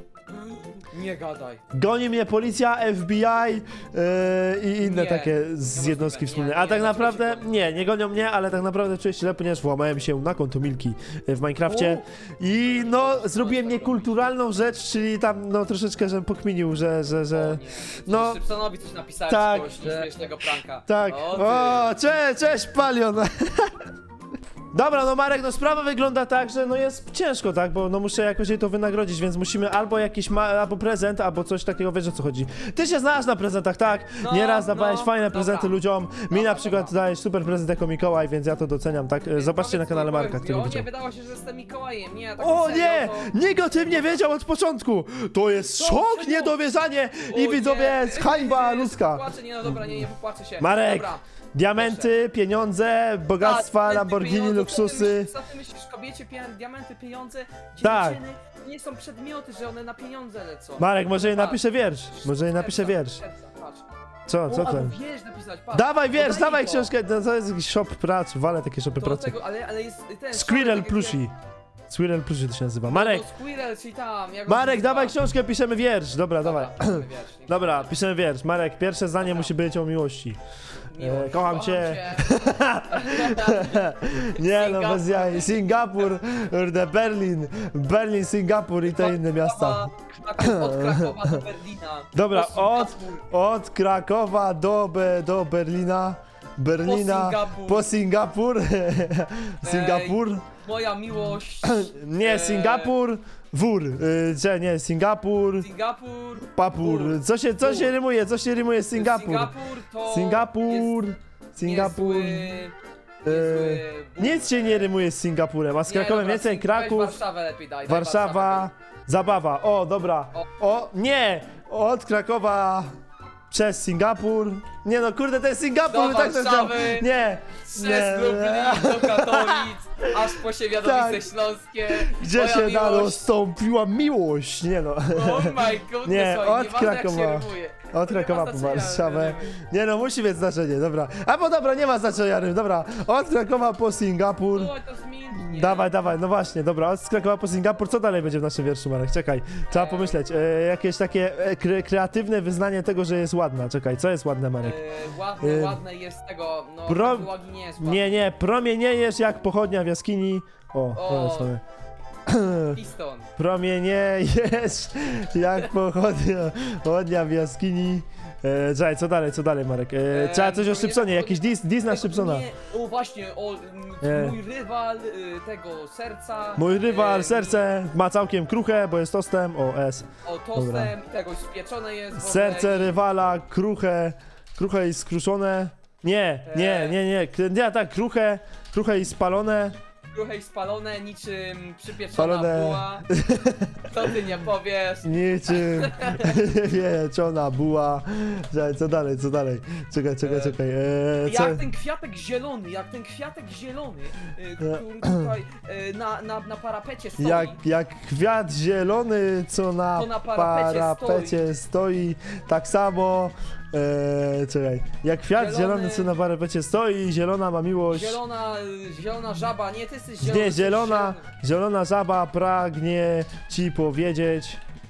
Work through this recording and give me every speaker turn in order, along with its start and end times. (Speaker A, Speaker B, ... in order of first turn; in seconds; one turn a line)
Speaker A: 0.3-1.6
Speaker B: 1.7-18.4
Speaker A: 4.8-7.5
Speaker A: 11.7-12.0
Speaker A: 12.6-14.3
Speaker A: 17.3-21.9
Speaker B: 19.3-20.1
Speaker B: 20.9-23.8
Speaker B: 24.7-40.9
Speaker A: 34.2-37.0
Speaker A: 39.3-44.2
Speaker B: 42.4-50.1
Speaker A: 45.6-46.6
Speaker A: 47.2-51.2
Speaker B: 50.6-55.3
Speaker A: 51.7-52.1
Speaker A: 53.4-61.6
Speaker B: 57.8-58.2
Speaker B: 60.8-63.2
Speaker A: 62.1-63.9
Speaker B: 64.3-65.0
Speaker A: 64.5-66.9
Speaker B: 65.7-69.3
Speaker A: 69.0-71.2
Speaker B: 70.3-71.3
Speaker B: 71.9-73.2
Speaker A: 72.9-75.2
Speaker B: 74.5-80.4
Speaker A: 76.4-77.9
Speaker A: 79.2-79.5
Speaker A: 80.9-86.2
Speaker B: 81.0-91.4
Speaker A: 88.8-93.2
Speaker B: 92.1-100.5
Speaker A: 96.8-97.9
Speaker A: 99.6-103.0
Speaker B: 101.6-105.7
Speaker A: 105.6-107.9
Speaker B: 106.5-109.5
Speaker A: 108.9-111.1
Speaker B: 110.1-112.6
Speaker A: 111.6-114.9
Speaker B: 113.2-117.2
Speaker A: 115.8-118.7
Speaker B: 117.9-122.9
Speaker B: 123.5-131.3
Speaker A: 125.9-127.1
Speaker A: 127.6-133.3
Speaker B: 131.9-144.7
Speaker A: 135.1-139.6
Speaker A: 144.5-145.9
Speaker B: 145.3-154.8
Speaker A: 149.7-150.2
Speaker A: 154.6-158.2
Speaker B: 155.4-155.8
Speaker B: 156.9-161.6
Speaker A: 160.9-161.5
Speaker B: 162.3-162.8
Speaker A: 162.7-163.3
Speaker B: 163.4-172.5
Speaker A: 170.1-177.7
Speaker B: 174.0-174.4
Speaker B: 176.6-180.9
Speaker A: 180.2-182.9
Speaker B: 182.2-189.8
Speaker A: 186.4-187.0
Speaker A: 190.1-193.1
Speaker B: 192.1-193.9
Speaker A: 193.8-196.4
Speaker B: 195.0-201.6
Speaker A: 200.2-200.6
Speaker A: 201.2-207.6
Speaker B: 204.6-205.3
Speaker B: 207.2-218.2
Speaker A: 209.9-211.5
Speaker A: 215.3-216.1
Speaker A: 217.9-221.2
Speaker B: 220.2-224.6